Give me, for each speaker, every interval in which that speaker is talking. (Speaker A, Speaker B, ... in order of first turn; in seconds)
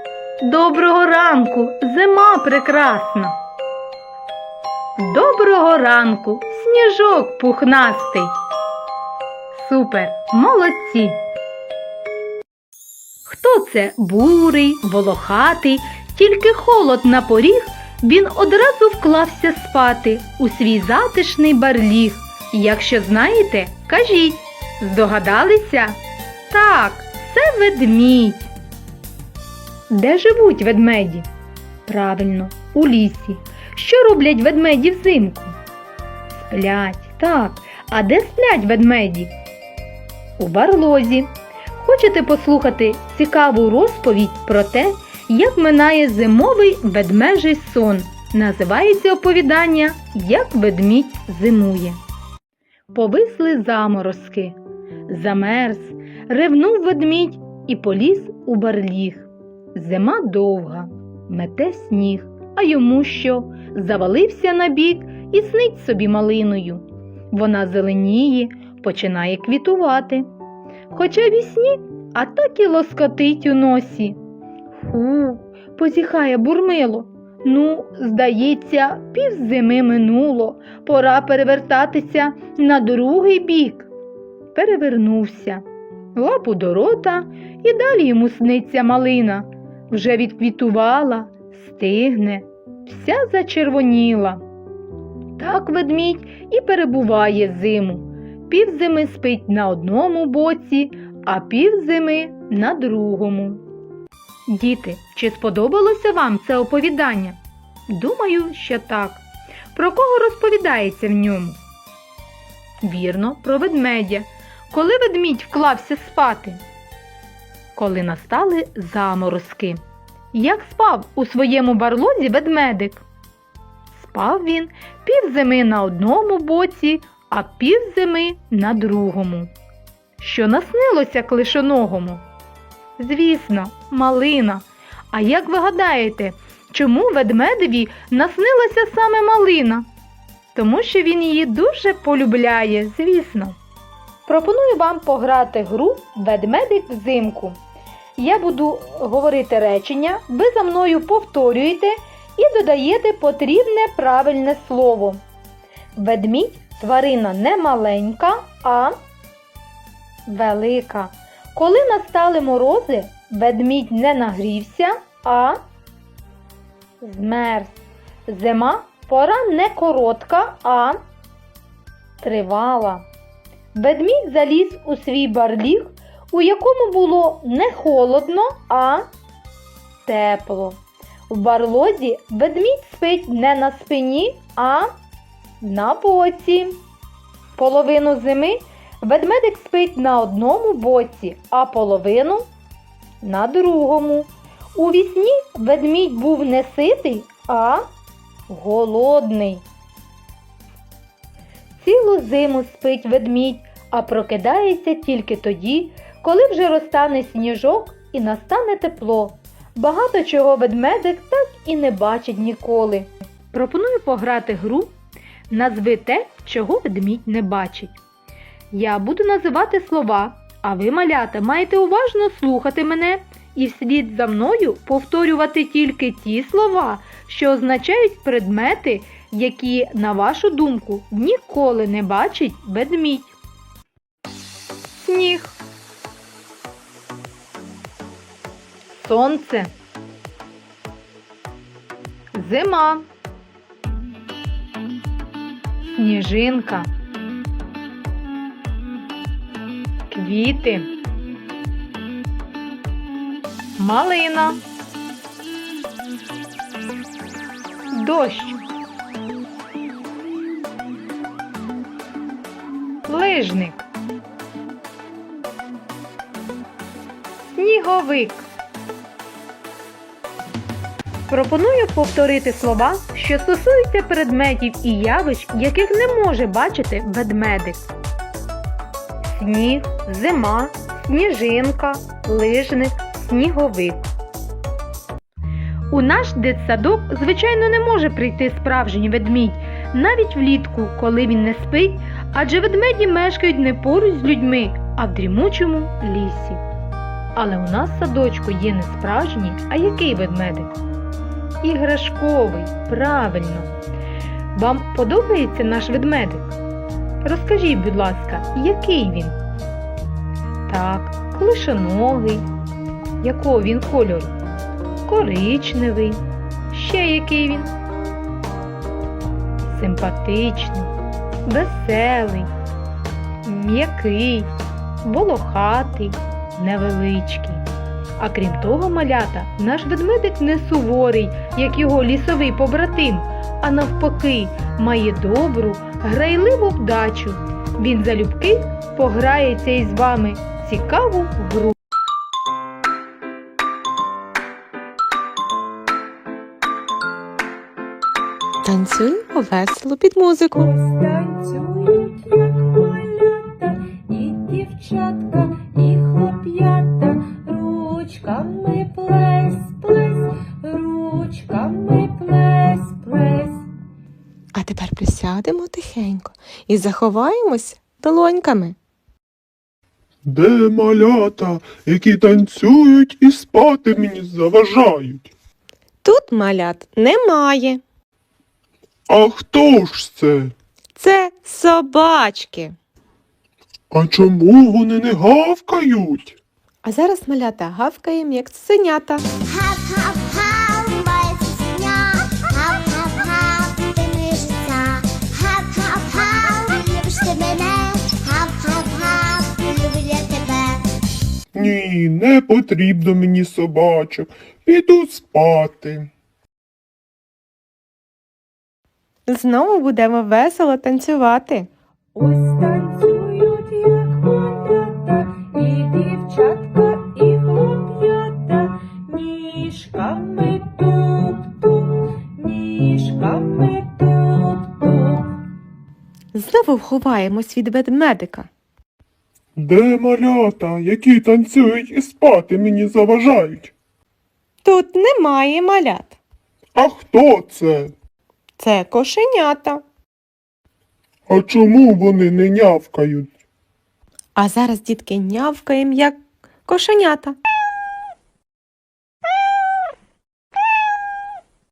Speaker A: 0.4-3.3, 5.0-8.3, 9.5-11.2, 13.2-26.0, 26.5-28.5, 29.9-31.3, 31.9-35.5, 36.3-39.3, 40.4-52.0, 52.9-70.3, 70.9-74.2, 74.8-83.9, 84.5-85.6, 86.1-94.4, 95.4-103.6, 104.5-107.4, 107.9-111.6, 112.8-116.6, 117.7-119.8, 120.3-123.0, 123.9-129.5, 130.2-132.2, 133.0-139.8, 140.5-143.6, 144.3-147.6, 148.2-155.2, 155.9-159.0, 160.3-165.6, 167.0-167.8, 168.3-171.0, 172.2-173.1, 173.7-179.1, 180.1-184.9, 185.6-186.8, 187.6-192.5, 193.2-197.8, 198.5-199.6, 201.8-214.9, 215.5-217.9, 218.7-233.3, 234.9-235.6, 238.9-239.7, 242.3-243.1, 245.8-246.9, 250.1-250.9, 253.8-254.6, 257.9-258.6, 263.1-263.9, 267.5-268.4, 271.3-277.9, 279.3-284.0, 285.9-296.6, 297.3-300.7, 301.6-303.7, 304.5-306.5, 307.2-309.4, 310.6-312.5, 313.2-314.4, 315.0-317.7, 319.6-320.9, 321.4-322.5, 323.4-324.5, 325.0-327.6, 328.2-341.7
Speaker B: 348.6-350.7, 364.5-368.7, 376.0-377.8, 381.0-382.8, 386.8-389.2, 409.3-411.7, 426.3-428.5, 434.6-436.2, 438.6-439.8, 444.4-447.4
Speaker C: 350.6-363.7, 412.1-425.3
Speaker D: 370.2-375.3, 379.1-380.5, 383.9-386.4, 401.5-406.1, 429.6-433.7, 436.7-437.9, 441.3-443.3
Speaker E: 389.4-400.8